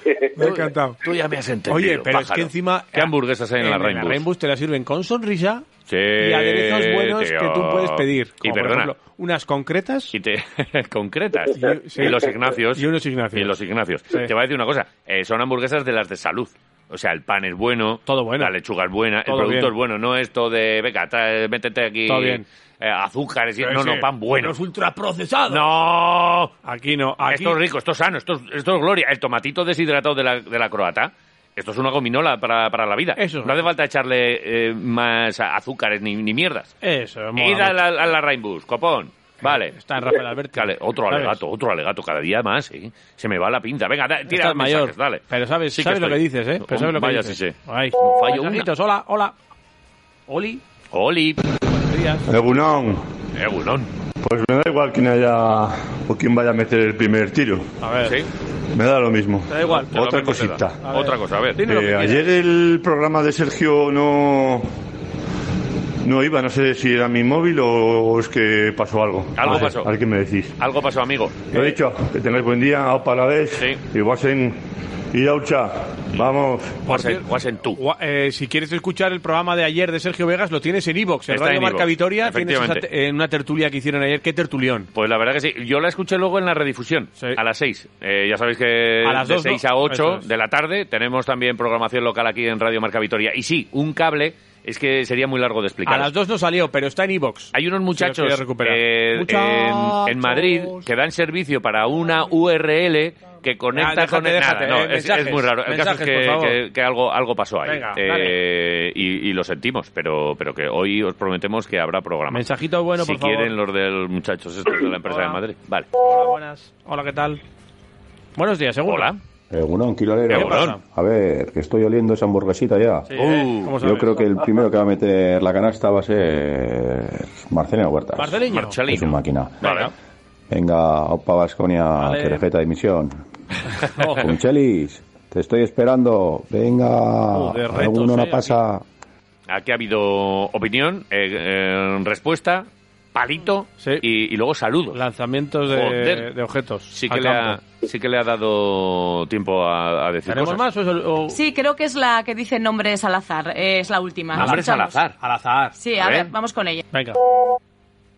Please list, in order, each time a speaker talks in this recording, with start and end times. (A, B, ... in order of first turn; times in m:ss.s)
0:00.4-0:01.0 A
0:00.4-0:04.2 B
0:01.7-0:05.6 A
0:05.9-0:08.9 B
0:06.2-0:10.1 A
0:10.1-0:24.5 B
0:11.5-0:13.6 A
0:18.0-0:18.5 A
0:19.3-0:19.7 A
0:22.0-0:22.4 A
0:23.6-0:25.7 A
0:25.5-0:26.5 B
0:26.6-0:27.6 A
0:27.3-0:36.7 B
0:33.2-0:33.6 A
0:36.8-0:37.8 A
0:37.4-0:39.8 B
0:39.4-0:41.4 A
0:40.5-0:48.7 B
0:44.3-0:49.3 A
0:50.3-0:50.6 A
0:50.9-0:51.4 B
0:51.7-0:52.2 A
0:52.3-0:53.1 C
0:53.3-0:53.9 B
0:54.2-0:57.7 C
0:57.8-0:58.2 A
0:58.0-0:58.3 B
0:58.7-1:00.8 C
0:59.5-0:59.9 A
0:59.9-1:01.6 B
1:00.8-1:02.2 A
1:01.6-1:04.7 C
1:06.0-1:10.6 C
1:09.4-1:09.9 B
1:10.6-1:11.6 B
1:11.5-1:16.9 C
1:16.9-1:17.8 B
1:16.9-1:17.2 A
1:17.7-1:24.9 A
1:21.3-1:22.8 B
1:24.9-1:36.1 B
1:29.0-1:30.3 A
1:35.8-1:40.9 A
1:37.5-1:55.9 B
1:43.7-1:46.6 A
1:47.6-1:48.4 A
1:52.3-1:53.5 A
1:55.0-1:55.4 A
1:56.0-1:57.4 A
1:58.4-1:59.1 A
1:58.8-1:59.2 B
1:59.5-2:03.1 D
2:00.3-2:00.8 A
2:00.3-2:00.8 B
2:03.1-2:04.2 A
2:03.1-2:03.8 B
2:03.8-2:09.7 D
2:08.2-2:08.8 A
2:08.5-2:09.9 B
2:09.6-2:09.9 A
2:10.5-2:13.1 D
2:12.0-2:12.4 A
2:13.8-2:14.3 A
2:14.0-2:14.3 B
2:14.2-2:18.8 D
2:17.3-2:18.5 A
2:19.5-2:25.0 B
2:23.8-2:24.0 A
2:24.9-2:27.6 A
2:25.7-2:26.3 B
2:26.9-2:30.6 B
2:30.3-2:31.4 A
2:31.3-2:35.0 E
2:34.3-2:35.2 B
2:34.4-2:35.8 A
2:35.8-2:36.8 E
2:36.0-2:36.3 B
2:36.9-2:37.2 A